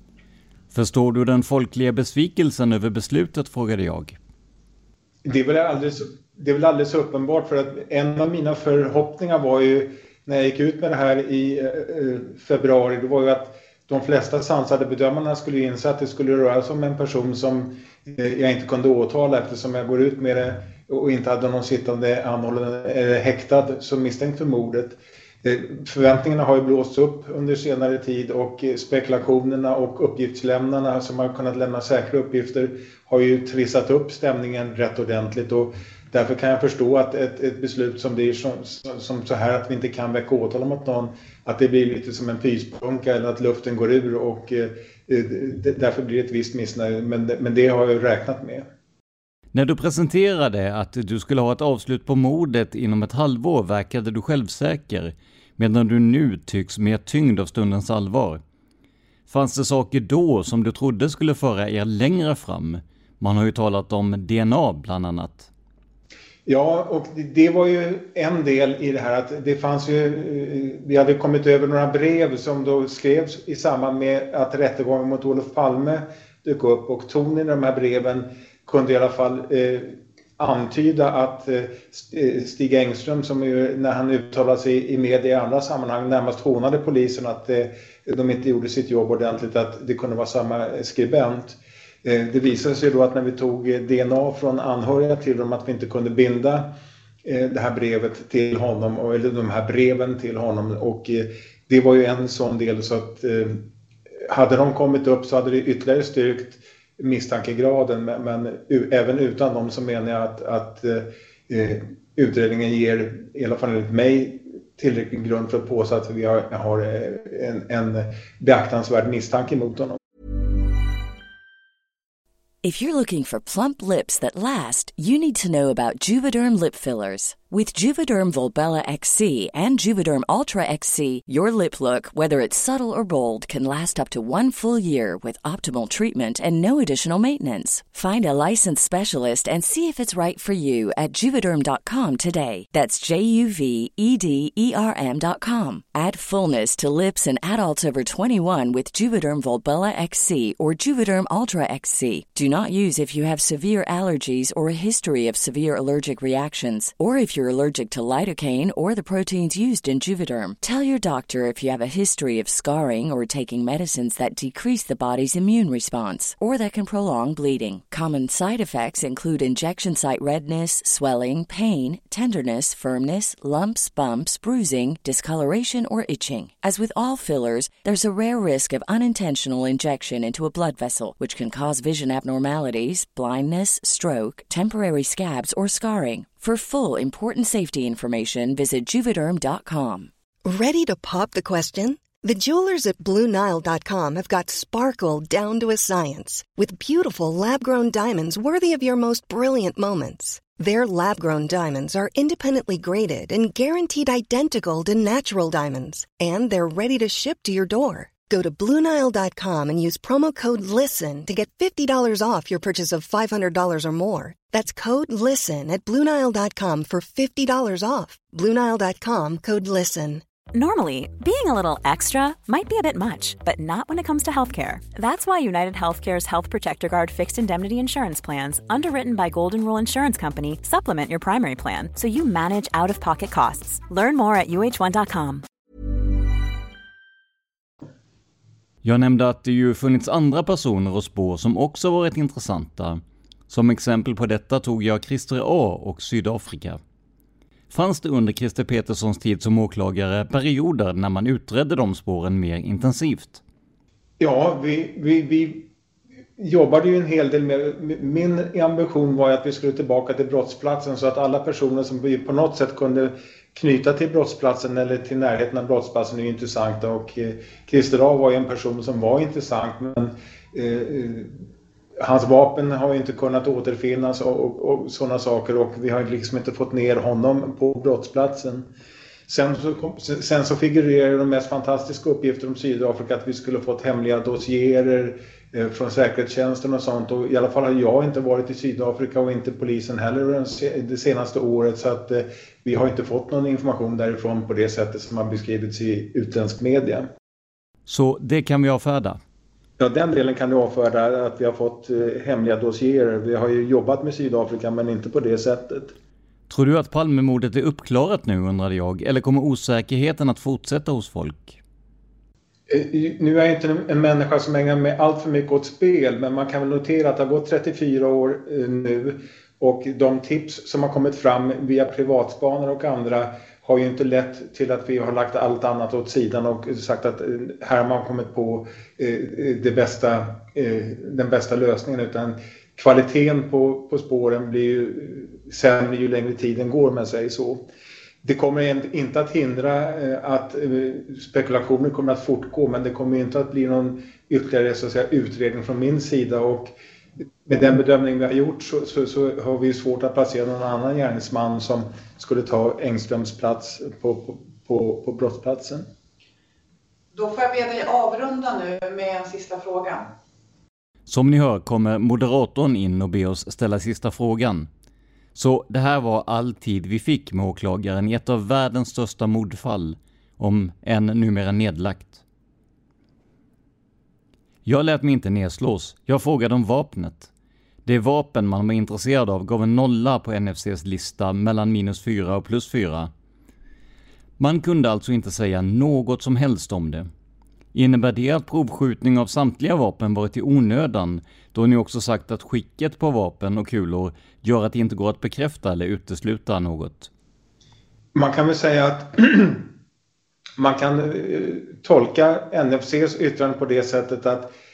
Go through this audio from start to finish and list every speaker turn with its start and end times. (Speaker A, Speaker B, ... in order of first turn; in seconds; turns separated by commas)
Speaker A: 0.7-4.2, Speaker B: 5.2-48.7, Speaker A: 49.5-58.4, Speaker A: 59.3-65.5, Speaker B: 66.5-96.7, Speaker B: 97.3-103.6, Speaker B: 104.3-120.0, Speaker C: 122.6-190.1, Speaker D: 190.5-220.2, Speaker E: 220.6-235.4, Speaker A: 238.8-246.8, Speaker A: 247.7-253.4, Speaker B: 254.2-255.7, Speaker B: 256.4-271.4, Speaker B: 272.0-278.7, Speaker B: 279.3-297.1, Speaker A: 297.9-299.2, Speaker B: 299.8-305.9, Speaker A: 306.5-311.6, Speaker B: 312.7-337.7, Speaker B: 338.2-346.7, Speaker B: 347.5-355.8, Speaker F: 357.1-360.1, Speaker A: 361.1-364.7, Speaker A: 365.4-372.2, Speaker A: 374.6-377.3, Speaker A: 377.9-383.1, Speaker A: 384.4-387.1, Speaker A: 387.8-397.1, Speaker B: 398.1-399.7, Speaker B: 400.6-404.5